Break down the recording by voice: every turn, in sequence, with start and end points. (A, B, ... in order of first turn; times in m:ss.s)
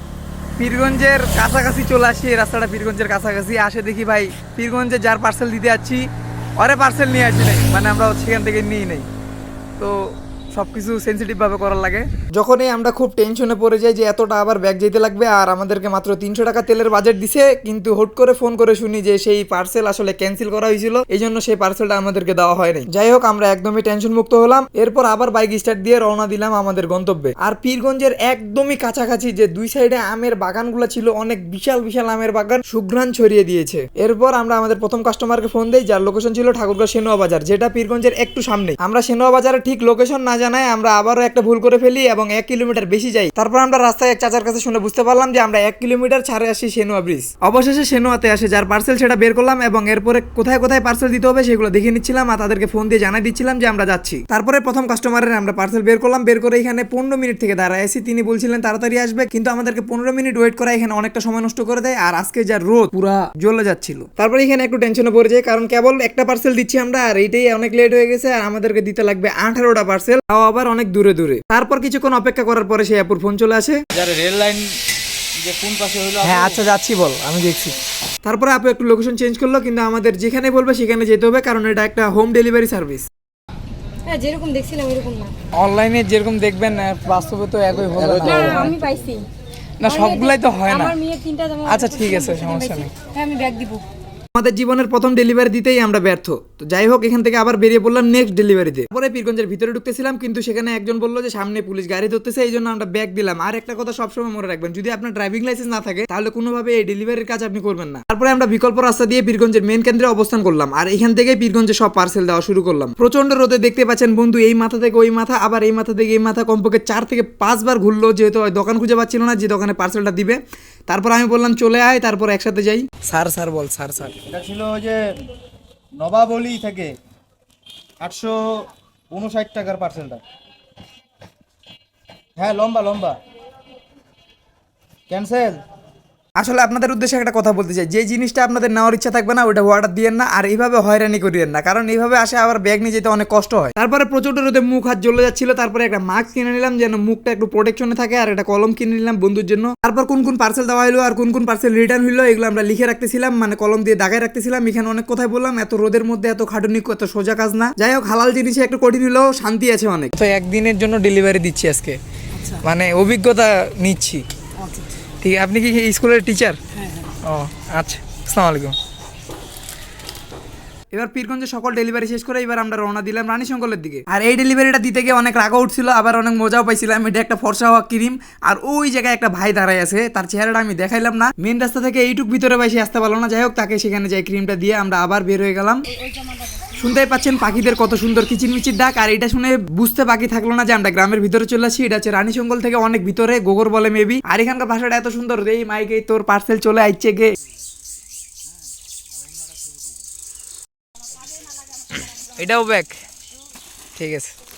0:00.6-0:06.1 A
0:06.6-0:09.1 A
0:09.8-1:13.8 A
1:13.9-1:14.8 B
1:15.4-1:16.6 B
1:16.2-1:23.1 A
1:24.0-1:25.3 C
1:25.5-1:28.8 A
1:28.2-1:29.2 C
1:29.8-1:31.0 A
1:29.8-1:33.8 C
1:31.6-1:32.9 A
1:34.4-2:04.2 A
2:04.2-2:05.2 B
2:06.0-2:06.9 B
2:08.0-2:10.2 B
2:12.4-2:13.2 B
2:15.1-2:15.6 B
2:16.4-2:44.2 A
2:44.6-2:44.9 C
2:45.2-2:48.8 A
2:50.9-3:05.8 A
3:06.0-3:06.6 C
3:06.8-3:17.4 A
3:21.9-3:23.0 A
3:24.0-3:24.3 A